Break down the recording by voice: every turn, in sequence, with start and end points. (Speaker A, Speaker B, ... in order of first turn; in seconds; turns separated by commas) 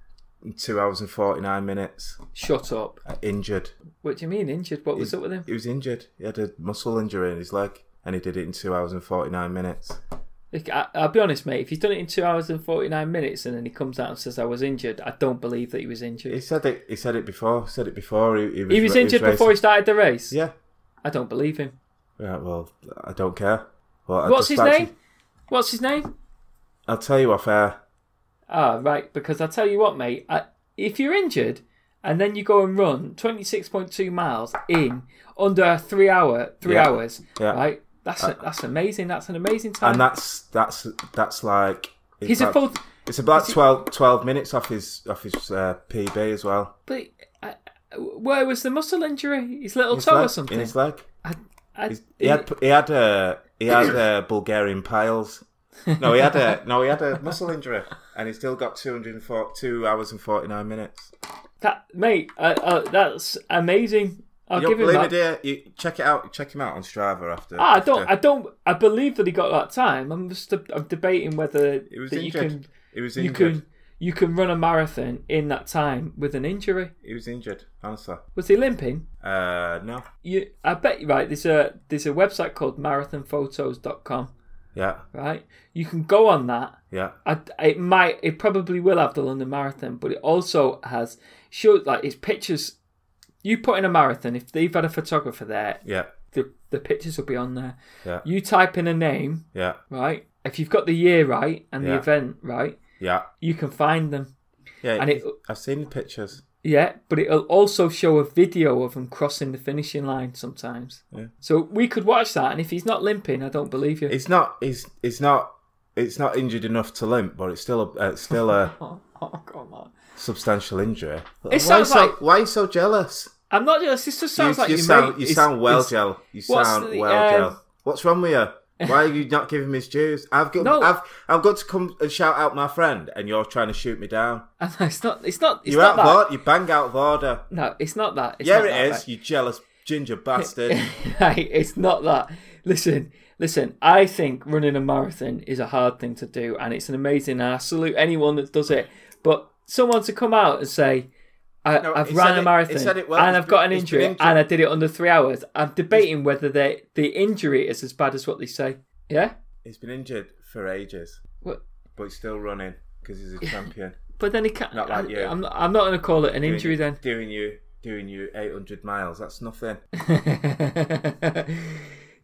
Speaker A: 0.4-2.2, Speaker B: 2.3-3.0, Speaker A: 3.0-3.7, Speaker B: 4.0-5.5, Speaker A: 5.0-10.0, Speaker B: 10.5-16.4, Speaker A: 16.3-19.6, Speaker B: 18.7-20.4, Speaker B: 21.0-21.7, Speaker A: 22.2-24.9, Speaker B: 24.2-24.9, Speaker B: 25.5-26.1, Speaker A: 26.9-27.8, Speaker B: 28.5-40.0, Speaker A: 36.6-37.6, Speaker A: 39.8-46.8, Speaker B: 42.2-42.8, Speaker B: 46.9-52.5, Speaker A: 49.9-51.1, Speaker A: 51.9-55.4, Speaker B: 55.9-56.5, Speaker A: 56.0-61.1, Speaker B: 61.6-65.1, Speaker A: 64.5-68.1, Speaker B: 67.6-76.9, Speaker A: 71.9-73.6, Speaker A: 77.0-78.2, Speaker B: 78.3-79.0, Speaker A: 79.2-80.0, Speaker B: 80.2-84.3, Speaker A: 84.7-85.0, Speaker B: 85.1-92.8, Speaker B: 93.4-95.8, Speaker A: 95.8-96.1, Speaker B: 96.3-102.8, Speaker A: 101.8-102.0, Speaker A: 103.0-103.3, Speaker B: 103.4-104.3, Speaker A: 104.8-106.4, Speaker B: 105.0-105.3, Speaker B: 106.6-114.1, Speaker A: 114.1-118.7, Speaker B: 118.7-119.9, Speaker A: 120.2-123.3, Speaker B: 121.5-122.2, Speaker B: 123.5-125.9, Speaker A: 124.3-134.5, Speaker B: 126.5-127.6, Speaker B: 130.6-130.9, Speaker B: 134.6-136.2, Speaker A: 135.7-137.4, Speaker B: 137.5-139.0, Speaker A: 138.4-140.9, Speaker B: 140.6-151.1, Speaker B: 151.6-159.3, Speaker A: 151.8-154.4, Speaker A: 159.6-161.2, Speaker A: 161.9-164.0, Speaker B: 164.2-167.0, Speaker A: 164.7-165.4, Speaker A: 166.4-169.8, Speaker B: 170.0-171.9